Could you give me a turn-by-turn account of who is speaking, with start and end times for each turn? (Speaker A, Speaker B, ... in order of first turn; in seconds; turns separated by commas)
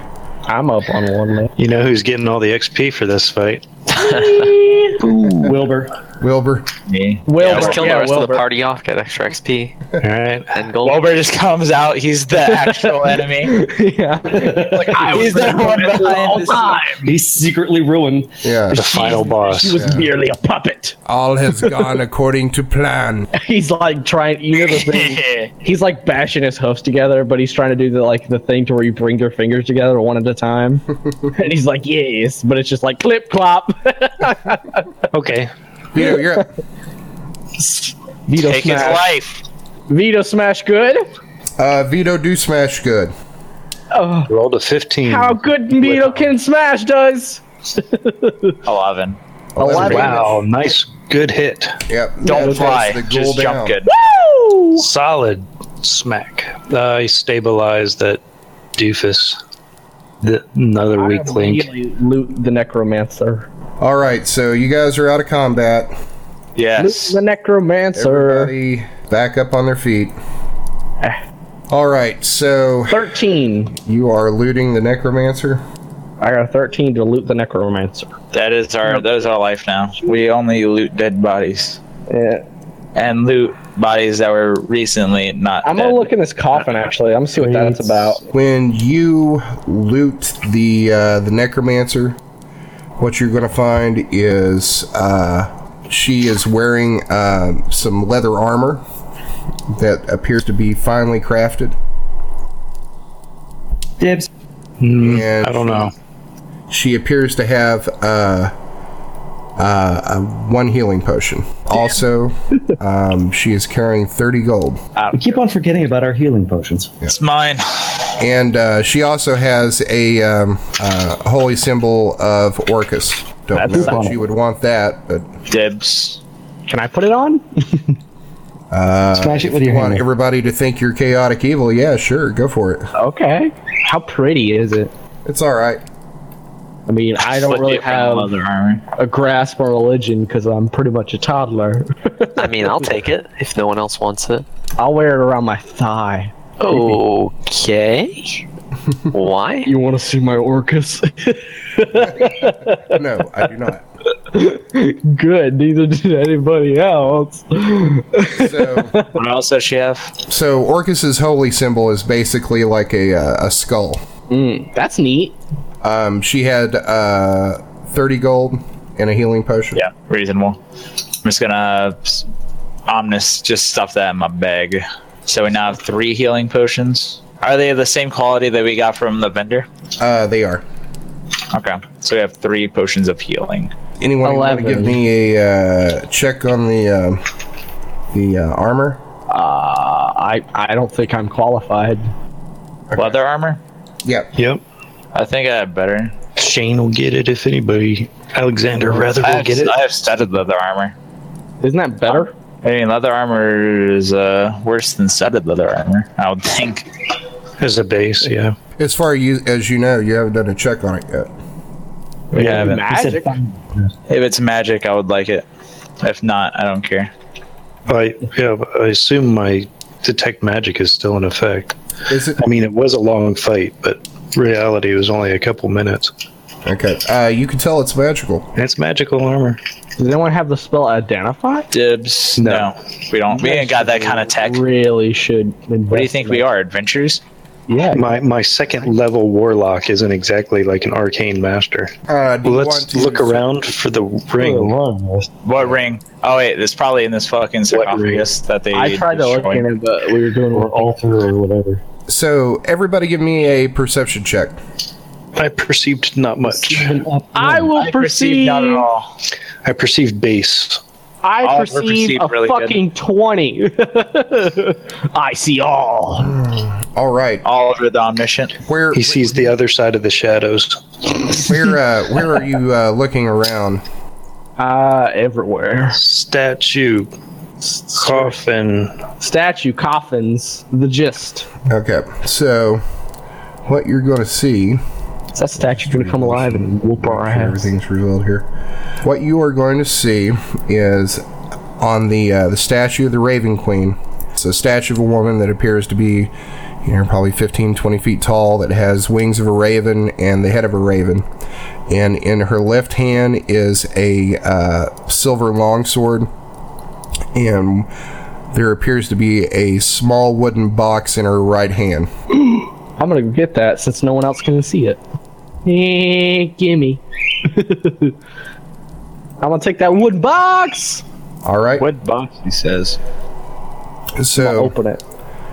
Speaker A: 0.5-1.5, Speaker B: 1.6-3.7, Speaker A: 3.9-5.0, Speaker B: 5.0-5.5, Speaker C: 5.3-5.9, Speaker D: 6.2-6.7, Speaker E: 6.9-8.1, Speaker A: 7.3-8.4, Speaker F: 7.4-9.8, Speaker B: 10.0-10.7, Speaker F: 10.5-11.0, Speaker E: 10.8-13.6, Speaker A: 12.5-17.1, Speaker C: 14.3-15.2, Speaker E: 14.8-17.1, Speaker C: 17.0-18.5, Speaker D: 18.4-18.8, Speaker B: 18.7-19.9, Speaker A: 18.7-20.9, Speaker D: 19.8-20.1, Speaker D: 21.0-23.3, Speaker A: 23.3-34.9, Speaker E: 24.7-25.5, Speaker B: 35.1-35.5, Speaker D: 35.9-36.5, Speaker A: 37.6-39.0, Speaker E: 38.4-39.4, Speaker A: 39.9-41.1, Speaker D: 41.6-43.1, Speaker A: 43.9-44.3, Speaker B: 44.3-46.1, Speaker A: 45.0-48.6, Speaker E: 48.6-49.2, Speaker D: 49.5-50.2, Speaker A: 49.6-50.4, Speaker E: 49.7-50.2, Speaker B: 49.8-51.8, Speaker D: 51.9-53.8, Speaker E: 52.3-53.9, Speaker A: 52.3-52.7, Speaker A: 53.9-54.9, Speaker B: 54.8-58.2, Speaker B: 58.8-59.4, Speaker B: 60.2-61.7, Speaker A: 61.0-63.5, Speaker D: 63.8-65.9, Speaker E: 66.5-67.2, Speaker A: 66.8-68.5, Speaker D: 67.9-70.1, Speaker D: 71.7-73.1, Speaker A: 72.9-73.8, Speaker D: 73.8-75.6, Speaker A: 76.2-78.1, Speaker E: 78.3-81.8, Speaker A: 82.1-82.4, Speaker E: 82.9-86.7, Speaker A: 85.6-88.2, Speaker C: 87.3-88.2, Speaker D: 88.3-92.2, Speaker D: 93.0-98.8, Speaker D: 99.7-101.8, Speaker C: 104.0-104.3, Speaker B: 104.8-105.9, Speaker D: 105.0-105.9, Speaker D: 106.7-108.5, Speaker D: 109.6-114.8, Speaker E: 115.0-115.4, Speaker C: 115.1-116.9, Speaker E: 117.1-118.1, Speaker D: 118.2-125.3, Speaker A: 123.5-124.2, Speaker C: 123.7-124.2, Speaker E: 125.5-126.2, Speaker A: 126.7-128.0, Speaker D: 128.7-132.9, Speaker C: 129.1-130.0, Speaker A: 132.9-134.9, Speaker D: 135.2-135.8, Speaker A: 136.9-138.3, Speaker E: 137.2-138.8, Speaker A: 138.9-142.7, Speaker F: 142.4-144.4, Speaker A: 144.8-147.0, Speaker F: 146.6-148.4, Speaker F: 149.1-149.7, Speaker A: 149.6-152.9, Speaker D: 152.4-153.8, Speaker A: 154.3-159.1, Speaker D: 158.3-158.9, Speaker E: 159.1-160.2, Speaker D: 160.3-164.0, Speaker A: 164.3-165.4, Speaker D: 165.8-169.8, Speaker E: 169.7-170.6, Speaker E: 171.2-172.2, Speaker E: 172.9-179.7, Speaker D: 180.0-180.6, Speaker E: 181.5-183.7, Speaker D: 184.0-187.2, Speaker A: 184.2-185.0, Speaker D: 188.1-189.0, Speaker A: 189.3-192.1, Speaker E: 192.9-193.6, Speaker B: 194.3-194.6, Speaker E: 195.1-196.2, Speaker B: 196.3-199.8, Speaker E: 199.2-200.9, Speaker A: 201.6-202.3, Speaker E: 202.6-206.9, Speaker B: 207.6-208.5, Speaker D: 208.8-211.3, Speaker A: 212.3-213.4, Speaker C: 212.3-213.9, Speaker E: 212.4-212.7, Speaker E: 214.1-215.4, Speaker E: 216.0-217.1, Speaker B: 217.9-221.8, Speaker D: 222.1-222.4, Speaker B: 222.4-226.1, Speaker D: 226.7-228.5, Speaker B: 228.6-229.6, Speaker A: 230.0-231.7, Speaker E: 231.7-234.6, Speaker B: 232.4-232.7, Speaker A: 233.3-236.4, Speaker E: 235.9-237.2, Speaker A: 237.7-238.1, Speaker B: 237.9-241.9, Speaker D: 242.1-243.4, Speaker B: 242.4-244.7, Speaker C: 244.3-245.4, Speaker E: 245.4-249.7, Speaker B: 247.7-248.3, Speaker A: 248.7-250.9, Speaker C: 250.5-251.8, Speaker D: 252.1-254.6, Speaker B: 255.3-257.0, Speaker C: 256.4-257.7, Speaker A: 257.3-258.9, Speaker E: 257.8-259.1, Speaker B: 259.6-260.8, Speaker A: 261.2-266.4, Speaker E: 261.4-262.8, Speaker D: 266.2-267.4, Speaker E: 267.4-268.6, Speaker D: 268.6-269.4, Speaker B: 268.9-271.5, Speaker D: 271.4-273.8, Speaker A: 274.6-276.0, Speaker B: 275.9-277.1, Speaker A: 277.6-278.4, Speaker B: 277.9-279.0, Speaker A: 279.2-281.5, Speaker D: 281.6-282.8, Speaker D: 283.6-284.8, Speaker A: 285.3-287.7, Speaker D: 285.6-288.5, Speaker D: 289.0-291.2, Speaker D: 291.8-296.3, Speaker D: 296.8-301.2, Speaker D: 301.9-306.3, Speaker D: 307.3-307.9, Speaker D: 308.5-312.1, Speaker A: 312.5-315.0, Speaker A: 315.6-318.1, Speaker A: 319.4-321.0, Speaker D: 321.4-321.8, Speaker E: 321.8-323.0, Speaker D: 324.2-324.7, Speaker A: 324.4-325.0